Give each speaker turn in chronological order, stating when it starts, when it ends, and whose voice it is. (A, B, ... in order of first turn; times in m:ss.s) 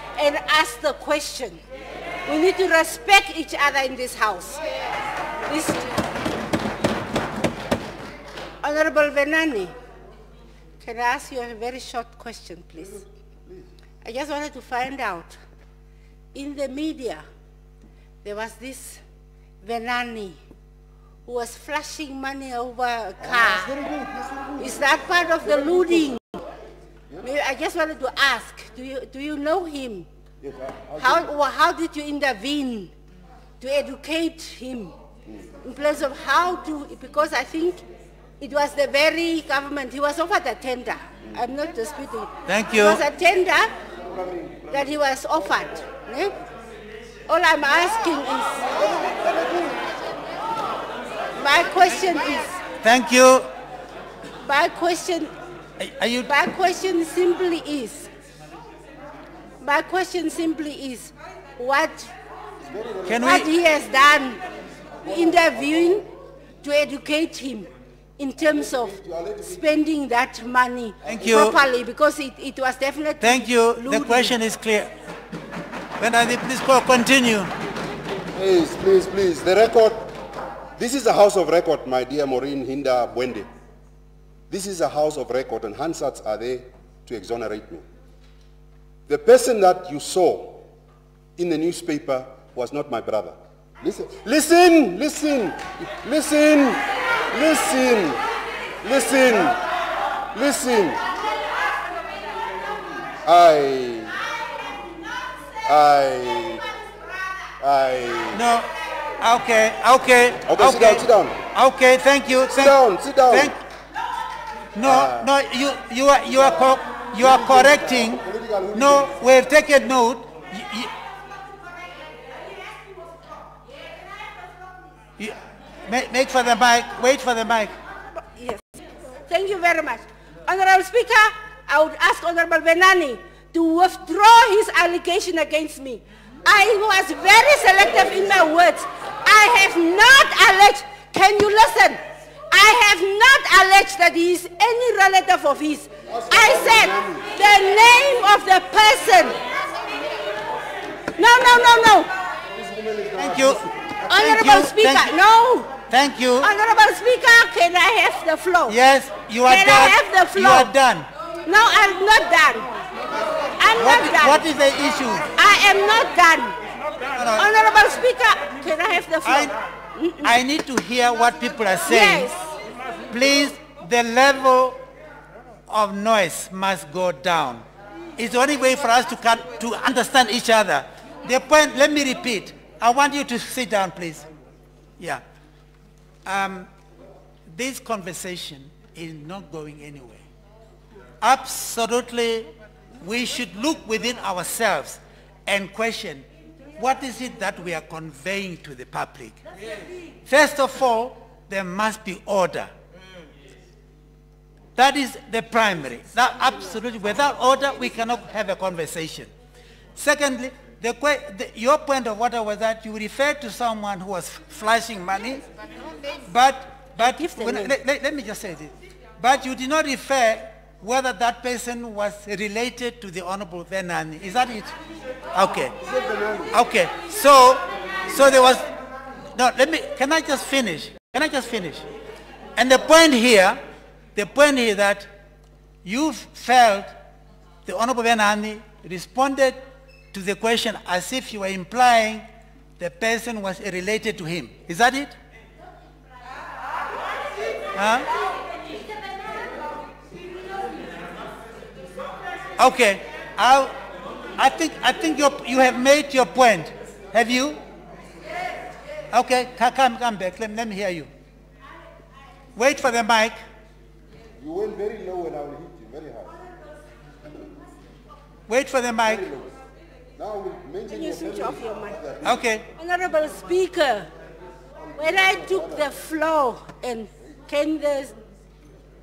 0:00.2-0:01.6 A
0:02.2-0:04.6 A
0:05.5-0:05.9 A
0:08.6-0:09.7 A
0:10.8-0:13.0 A
0:12.8-0:13.7 B
0:14.0-0:15.4 A
0:16.3-0:17.2 A
0:18.2-0:19.0 A
0:19.6-0:20.4 A
0:21.2-0:23.7 A
0:23.2-0:26.2 B
0:24.6-0:26.4 A
0:27.2-0:30.1 A
0:30.4-0:31.3 B
0:31.0-0:32.9 A
0:33.6-0:35.0 A
0:35.6-0:37.8 A
0:38.4-0:43.7 A
0:42.5-0:43.0 C
0:44.0-0:45.9 B
0:44.7-0:46.4 A
0:47.3-0:48.7 A
0:48.6-0:49.9 B
0:51.4-0:52.6 A
0:52.8-0:53.5 C
0:54.4-0:55.3 A
0:55.8-0:56.3 C
0:56.2-0:58.1 A
0:59.6-1:02.1 A
1:02.6-1:03.5 B
1:03.1-1:03.5 C
1:03.2-1:04.4 A
1:05.0-1:06.1 B
1:05.1-1:06.0 A
1:06.6-1:14.3 A
1:08.4-1:09.7 B
1:11.0-1:11.6 B
1:11.1-1:11.6 C
1:13.2-1:14.9 C
1:16.0-1:17.5 C
1:18.3-1:20.1 B
1:20.8-1:23.5 B
1:24.5-1:27.9 B
1:29.1-1:30.6 B
1:31.4-1:38.2 B
1:38.8-1:39.6 B
1:40.3-1:41.0 B
1:43.2-1:44.2 B
1:45.6-1:46.6 B
1:47.6-1:48.4 B
1:48.3-1:48.7 C
1:49.2-1:52.8 C
1:50.4-1:51.4 B
1:52.5-1:53.6 B
1:53.3-1:53.6 C
1:54.8-1:58.2 C
1:54.8-1:55.3 B
1:56.3-1:59.2 B
1:58.7-2:00.9 C
2:05.2-2:07.8 C
2:08.3-2:22.0 A
2:17.8-2:18.5 B
2:22.5-2:29.4 A
2:26.1-2:27.3 B
2:31.2-2:32.1 A
2:32.5-2:34.3 B
2:33.2-2:35.1 C
2:34.1-2:35.7 A
2:35.9-2:36.5 C
2:36.4-2:38.8 A
2:38.7-2:41.1 C
2:39.5-2:40.7 A
2:41.5-2:42.8 A
2:43.6-2:44.4 A
2:43.8-2:45.3 C
2:45.3-2:46.6 A
2:47.1-2:47.4 C
2:47.4-2:50.4 A
2:49.2-2:49.5 C
2:50.2-2:52.3 C
2:51.9-2:52.5 A
2:53.1-2:54.8 C
2:55.7-2:57.6 C
2:58.2-3:04.3 C
3:06.2-3:06.7 C
3:07.5-3:10.2 C
3:11.2-3:12.5 C
3:13.0-3:16.2 C
3:16.8-3:19.4 C
3:20.2-3:22.7 C
3:24.8-3:29.3 C
3:30.0-3:35.5 C
3:36.2-3:44.7 C
3:37.0-3:37.7 A
3:45.3-3:45.8 C
3:45.8-3:46.6 B
3:46.5-3:48.7 C
3:49.4-3:51.8 C
3:52.6-3:53.6 C
3:54.2-3:55.1 C
3:55.8-3:56.9 C
3:57.7-4:02.2 C
4:02.8-4:05.2 C
4:07.7-4:08.1 C
4:12.6-4:13.8 C
4:14.4-4:17.6 C
4:19.1-4:21.1 C
4:22.5-4:23.4 C
4:24.4-4:26.4 B
4:28.5-4:29.3 C
4:29.0-4:29.6 B
4:30.2-4:32.4 B
4:30.9-4:32.0 A
4:32.2-4:32.7 C
4:32.8-4:34.1 A
4:34.8-4:35.9 B
4:35.0-4:38.2 A